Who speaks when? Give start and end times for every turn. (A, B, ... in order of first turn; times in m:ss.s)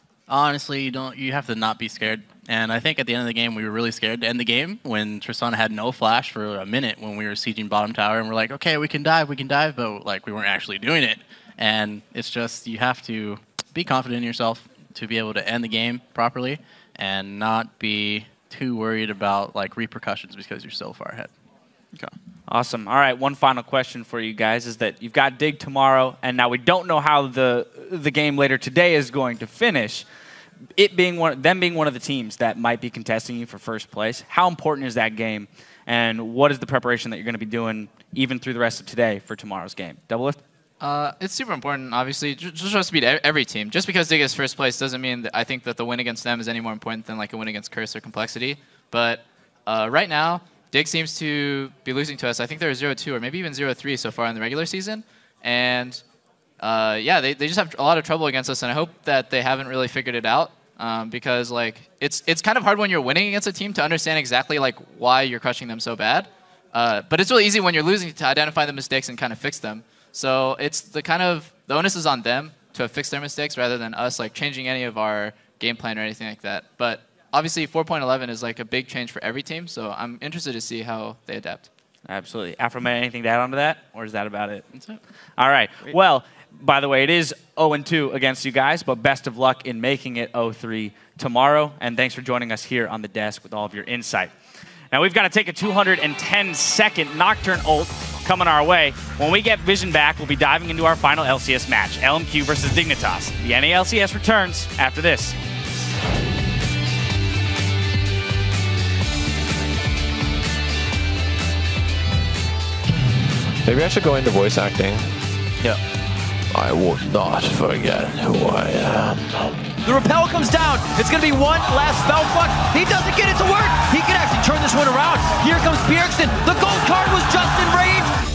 0:00.3-0:21.3 A
0:22.5-0:30.0 B
0:30.8-0:40.4 B
0:40.8-0:56.0 C
0:56.6-1:21.7 C
1:22.1-1:24.7 B
1:24.7-1:25.0 A
1:25.4-1:34.3 B
1:34.9-1:45.4 B
1:53.6-1:55.1 D
1:56.5-1:59.5 D
1:59.8-2:08.2 E